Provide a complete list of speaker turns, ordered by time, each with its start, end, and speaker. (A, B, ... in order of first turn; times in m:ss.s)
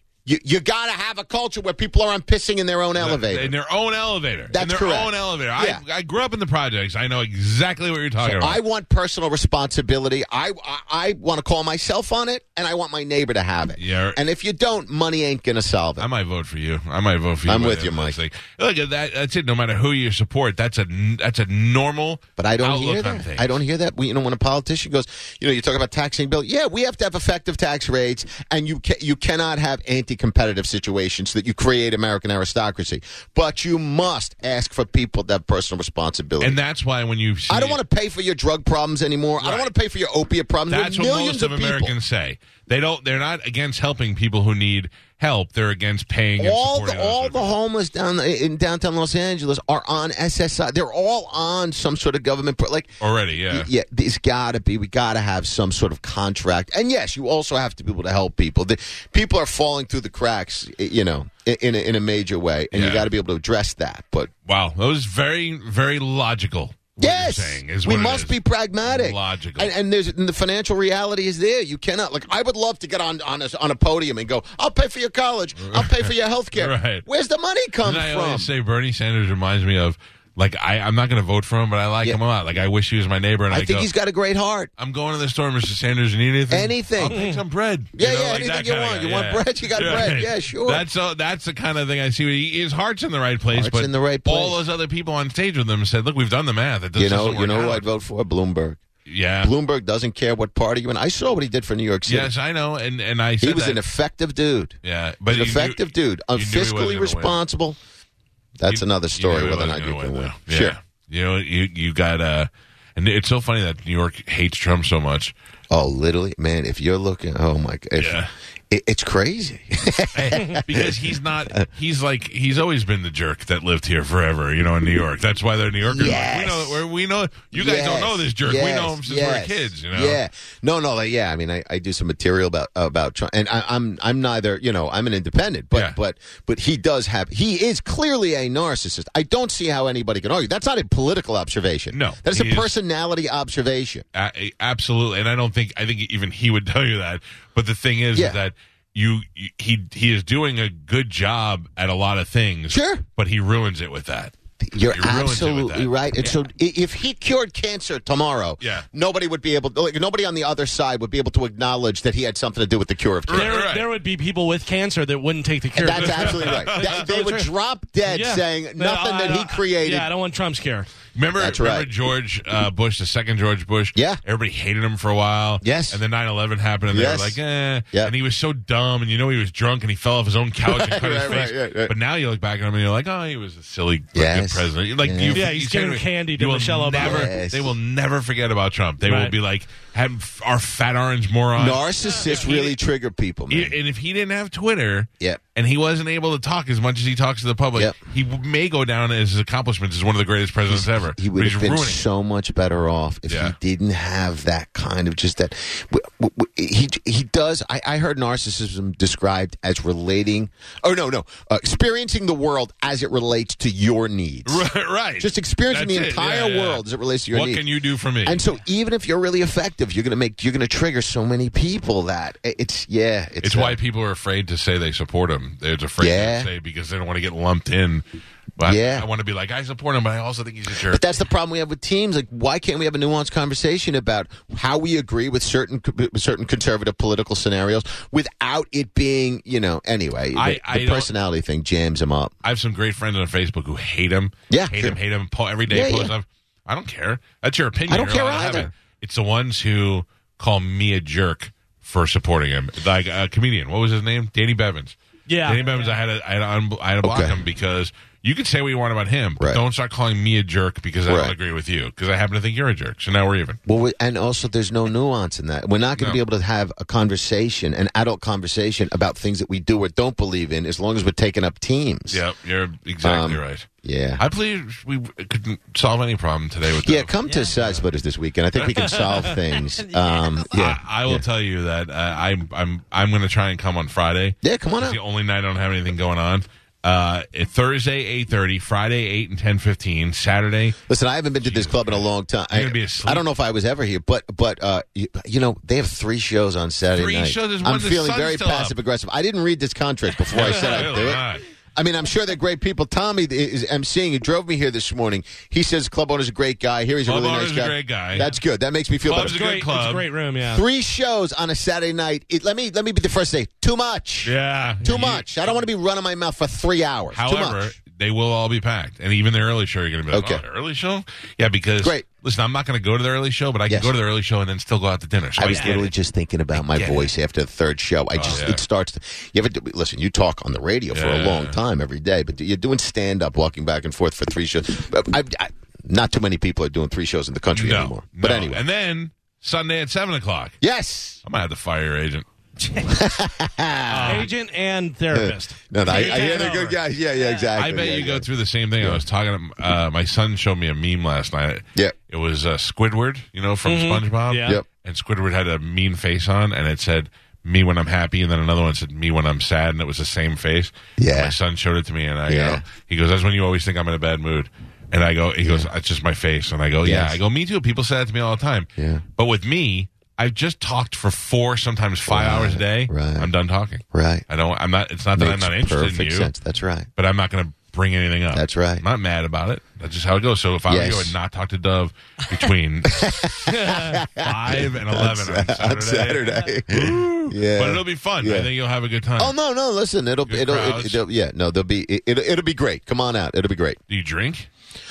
0:00.2-0:03.5 A
0:03.0-0:08.6 B
0:04.5-0:05.8 A
0:08.2-0:16.1 A
0:13.8-0:14.2 B
0:16.0-0:23.6 B
0:17.4-0:18.2 A
0:22.4-0:36.6 A
0:36.4-0:37.8 B
0:37.5-0:41.9 A
0:39.4-0:39.7 B
0:40.7-0:47.5 B
0:46.4-0:52.9 A
0:53.0-0:53.7 B
0:53.5-1:04.3 A
1:02.7-1:03.1 B
1:04.4-1:09.7 B
1:07.0-1:18.5 A
1:15.7-1:17.0 B
1:17.8-1:23.9 B
1:23.5-1:24.7 A
1:24.8-1:37.8 B
1:26.5-1:27.2 A
1:27.1-1:27.4 C
1:28.0-1:30.8 A
1:33.5-1:34.6 A
1:37.0-1:38.8 A
1:39.0-1:39.5 B
1:39.4-1:42.3 A
1:42.1-1:43.8 B
1:43.4-1:47.8 A
1:44.8-1:47.4 B
1:48.6-1:50.8 A
1:48.7-1:55.3 B
1:55.7-2:01.6 A
1:58.0-1:58.3 B
2:00.1-2:10.2 B
2:05.8-2:06.8 A
2:07.5-2:24.0 A
2:21.9-2:22.7 B
2:24.1-2:34.3 B
2:28.1-2:28.4 A
2:32.7-2:33.0 A
2:34.6-2:43.6 A
2:34.9-2:36.4 B
2:38.6-2:38.8 B
2:43.3-2:43.9 B
2:43.3-2:47.5 C
2:45.7-2:50.1 A
2:45.9-2:47.0 B
2:48.0-2:50.9 C
2:51.1-3:12.8 B
2:51.4-2:51.9 A
2:53.9-2:54.2 A
2:55.6-2:56.0 A
2:56.9-2:57.4 A
3:00.6-3:01.9 A
3:04.1-3:05.5 A
3:05.3-3:07.3 C
3:06.9-3:07.7 A
3:09.0-3:09.3 C
3:11.6-3:13.8 A
3:13.5-3:22.0 B
3:20.7-3:34.6 A
3:23.3-3:23.5 B
3:34.4-3:38.4 B
3:35.2-3:37.6 A
3:38.2-3:43.8 A
3:43.4-3:48.0 B
3:46.0-3:46.5 A
3:48.6-3:51.1 B
3:48.6-3:49.1 A
3:50.8-4:02.3 A
4:00.3-4:01.1 B
4:02.4-4:23.6 B
4:04.5-4:05.0 A
4:05.7-4:06.1 A
4:07.9-4:08.7 A
4:15.3-4:15.9 C
4:17.0-4:17.4 A
4:21.1-4:21.3 A
4:23.7-4:32.2 A
4:32.1-4:37.8 B
4:33.0-4:34.2 A
4:36.8-4:41.2 A
4:38.6-4:39.3 B
4:39.0-4:39.4 C
4:40.5-4:50.8 B
4:44.4-4:45.0 A
4:50.9-5:09.4 A
4:51.4-4:53.2 B
4:56.9-4:58.8 B
5:00.3-5:01.4 B
5:07.0-5:08.3 B
5:09.0-5:10.1 B
5:09.1-5:10.6 C
5:10.4-5:17.7 A
5:14.2-5:15.5 B
5:17.1-5:25.9 B
5:20.1-5:20.4 A
5:21.8-5:22.0 A
5:23.7-5:23.9 A
5:25.4-5:38.6 A
5:25.4-5:25.8 C
5:26.5-5:27.1 B
5:28.1-5:28.6 B
5:30.9-5:31.6 B
5:37.5-5:40.6 B
5:40.6-5:41.2 A
5:41.2-5:42.2 B
5:42.8-5:44.3 A
5:43.9-5:46.8 C
5:45.1-5:48.3 A
5:45.9-5:46.5 B
5:47.5-6:16.3 B
5:53.6-5:54.6 C
6:01.0-6:01.4 A
6:02.3-6:02.6 A
6:05.4-6:05.7 A
6:06.8-6:07.2 A
6:08.8-6:09.0 A
6:12.1-6:13.3 A
6:13.9-6:14.2 A
6:15.2-6:16.9 A
6:17.0-6:23.6 B
6:18.3-6:18.8 A
6:20.7-6:21.1 A
6:22.9-6:28.5 A
6:23.5-6:24.0 C
6:24.2-6:29.3 B
6:29.2-6:33.8 A
6:30.3-6:31.0 B
6:33.9-6:34.5 B